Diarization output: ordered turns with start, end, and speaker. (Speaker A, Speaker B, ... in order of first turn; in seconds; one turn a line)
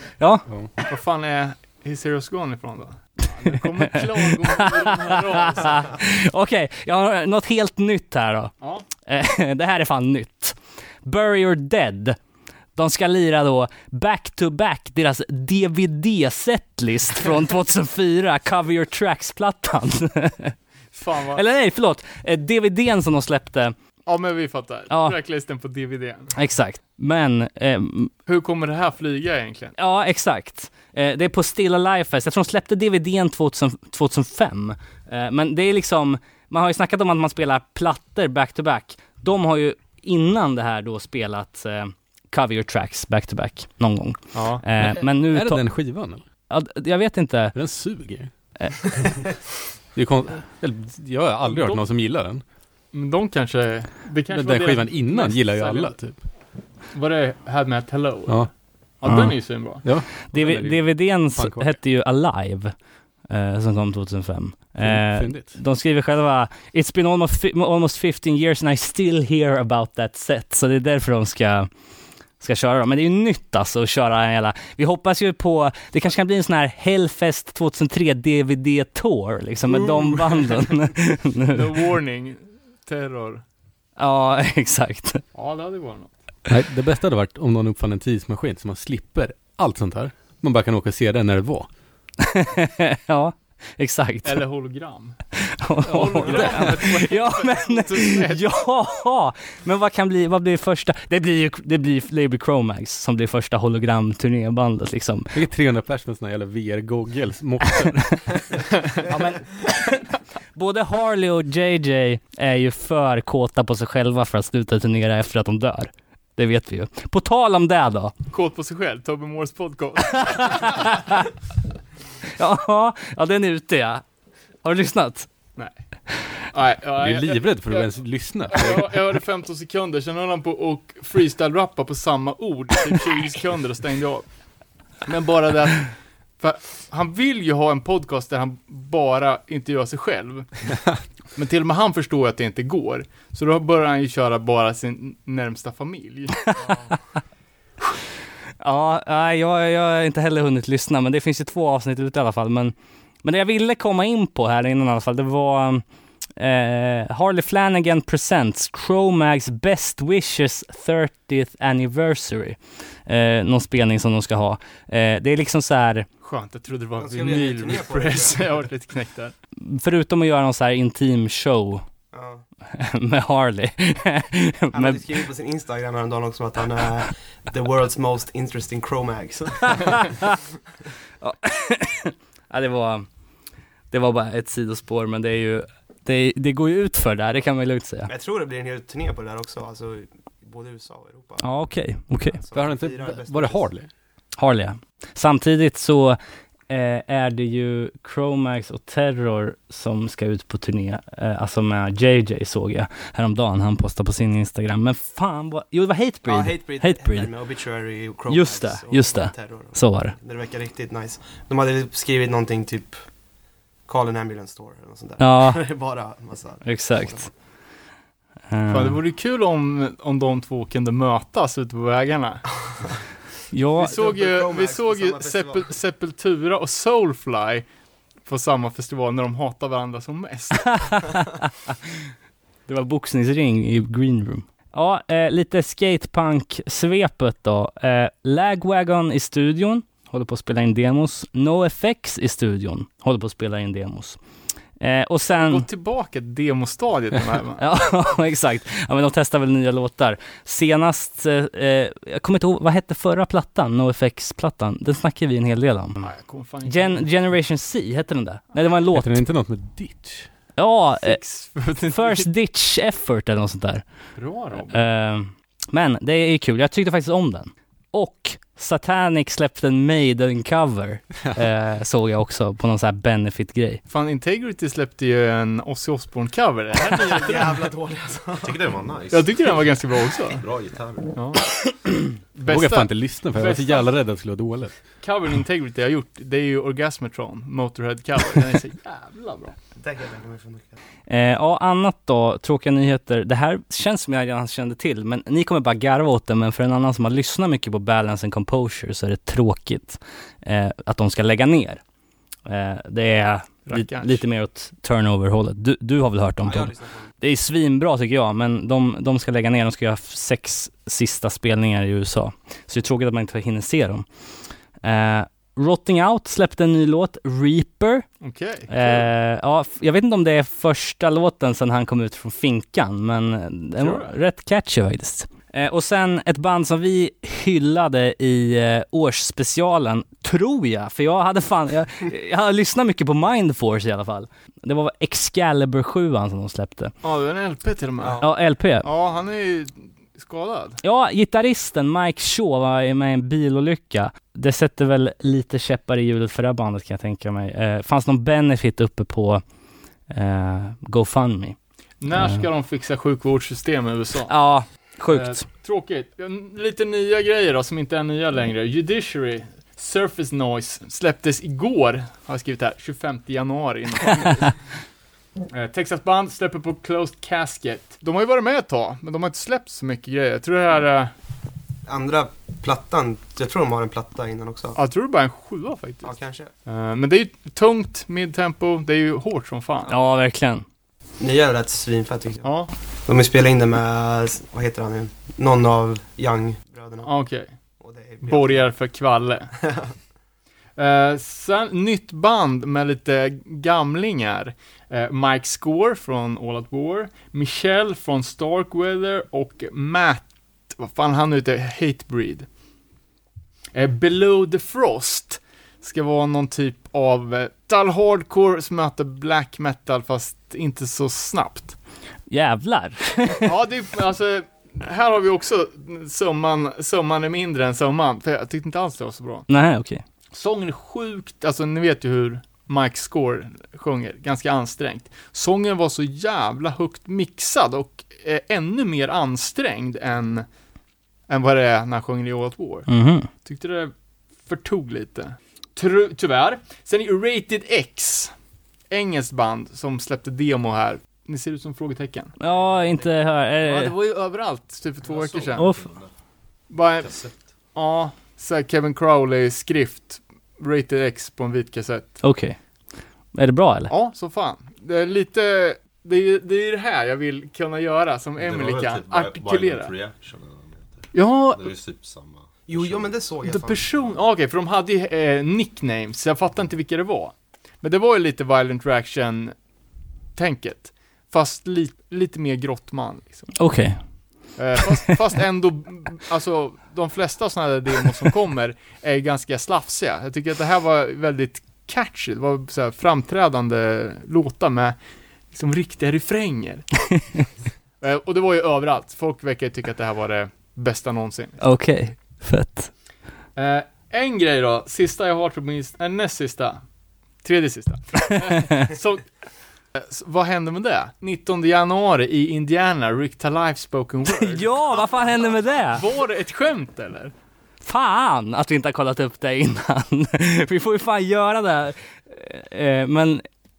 Speaker A: 0.2-0.5
Speaker B: 0.5-0.7
Speaker C: 0.9-5.9
Speaker A: 4.5-12.2
Speaker A: 12.8-20.6
Speaker C: 20.9-21.4
Speaker A: 21.3-23.8
Speaker C: 24.1-26.3
Speaker A: 24.9-25.2
Speaker A: 26.4-28.1
Speaker C: 28.3-29.8
Speaker A: 29.8-47.6
Speaker C: 44.3-44.6
Speaker B: 44.8-46.2
Speaker B: 47.5-49.1
Speaker B: 50.0-52.4
Speaker C: 51.5-51.9
Speaker C: 52.9-56.3
Speaker B: 54.3-56.2
Speaker C: 56.9-59.9
Speaker B: 59.0-61.8
Speaker A: 60.3-71.7
Speaker B: 64.8-65.6
Speaker A: 72.4-81.7
Speaker C: 79.7-80.9
Speaker C: 81.5-83.4
Speaker A: 84.0-85.2
Speaker C: 85.3-86.1
Speaker B: 86.5-91.7
Speaker A: 92.2-94.4
Speaker C: 94.2-95.2
Speaker A: 95.4-105.3
Speaker C: 95.9-98.5
Speaker B: 96.2-96.6
Speaker B: 105.3-108.6
Speaker C: 109.0-109.4
Speaker A: 110.5-118.1
Speaker C: 118.3-121.0
Speaker A: 120.3-121.2
Speaker A: 122.4-124.0
Speaker A: 124.6-125.3
Speaker C: 126.3-134.3
Speaker B: 127.0-129.0
Speaker C: 135.1-147.0
Speaker A: 148.6-155.8
Speaker A: 156.4-166.1
Speaker C: 166.2-169.3
Speaker D: 167.0-168.5
Speaker A: 169.6-171.8
Speaker D: 172.1-172.4
Speaker A: 172.7-175.0
Speaker D: 174.7-180.1
Speaker A: 181.2-183.1
Speaker A: 183.9-188.1
Speaker D: 188.1-193.7
Speaker A: 191.4-192.4
Speaker B: 192.5-193.9
Speaker A: 194.4-207.3
Speaker D: 206.3-213.1
Speaker A: 208.3-210.2
Speaker D: 213.9-217.3
Speaker A: 215.2-215.6
Speaker A: 216.7-217.3
Speaker A: 218.5-219.0
Speaker C: 218.7-222.9
Speaker A: 223.5-223.9
Speaker D: 223.8-225.7
Speaker C: 223.8-227.7
Speaker C: 228.3-231.0
Speaker A: 230.7-231.7
Speaker A: 232.7-244.2
Speaker A: 244.8-245.7
Speaker C: 245.3-247.6
Speaker A: 247.6-256.1
Speaker C: 256.0-257.1
Speaker A: 256.7-259.2
Speaker B: 258.9-260.3
Speaker A: 260.6-263.8
Speaker C: 261.0-262.3
Speaker C: 264.2-264.9
Speaker A: 264.7-273.8
Speaker C: 273.9-277.7
Speaker D: 276.9-278.6
Speaker E: 278.4-279.8
Speaker C: 279.1-280.4
Speaker E: 280.3-281.1
Speaker C: 281.1-283.9
Speaker B: 282.5-284.8
Speaker C: 285.0-289.6
Speaker D: 289.8-290.8
Speaker A: 291.1-301.8
Speaker A: 302.5-314.1
Speaker C: 303.7-304.2
Speaker D: 306.4-307.1
Speaker A: 314.8-318.1
Speaker C: 318.2-319.1
Speaker A: 318.7-336.9
Speaker C: 323.8-324.1
Speaker C: 337.0-338.2
Speaker D: 338.0-338.3
Speaker A: 338.2-338.9
Speaker C: 338.8-340.8
Speaker A: 340.8-349.4
Speaker A: 350.1-351.6
Speaker C: 352.0-354.4
Speaker A: 352.1-352.5
Speaker A: 354.3-355.4
Speaker C: 355.1-364.6
Speaker C: 365.5-371.1
Speaker D: 371.9-374.8
Speaker C: 374.8-376.1
Speaker D: 376.0-376.5
Speaker C: 376.7-379.9
Speaker A: 379.9-380.6
Speaker D: 381.2-382.5
Speaker C: 382.4-382.7
Speaker D: 383.1-387.1
Speaker C: 387.0-387.5
Speaker D: 387.8-388.7
Speaker C: 388.2-389.5
Speaker D: 389.6-389.9
Speaker C: 390.8-402.5
Speaker C: 403.7-411.8
Speaker A: 412.3-413.5
Speaker C: 413.4-419.5
Speaker A: 419.5-420.0
Speaker C: 420.3-430.5
Speaker C: 431.3-433.9
Speaker A: 432.9-433.3
Speaker C: 434.5-438.3
Speaker C: 438.9-442.4
Speaker A: 442.4-443.9
Speaker C: 443.6-445.7
Speaker E: 445.1-446.1
Speaker A: 445.6-445.8
Speaker C: 446.7-452.2
Speaker E: 447.0-447.6
Speaker A: 452.2-452.6
Speaker A: 453.3-453.9
Speaker C: 453.9-459.9
Speaker E: 458.4-463.3
Speaker C: 461.1-461.8
Speaker D: 462.7-464.1
Speaker C: 463.4-469.6
Speaker C: 470.4-473.6
Speaker A: 473.6-474.1
Speaker C: 474.6-485.0
Speaker C: 485.5-486.9
Speaker C: 488.0-491.6
Speaker A: 491.6-492.9
Speaker C: 493.6-496.8
Speaker C: 497.4-499.3
Speaker C: 499.9-504.7
Speaker A: 504.3-506.0
Speaker C: 505.9-507.3
Speaker A: 507.8-513.4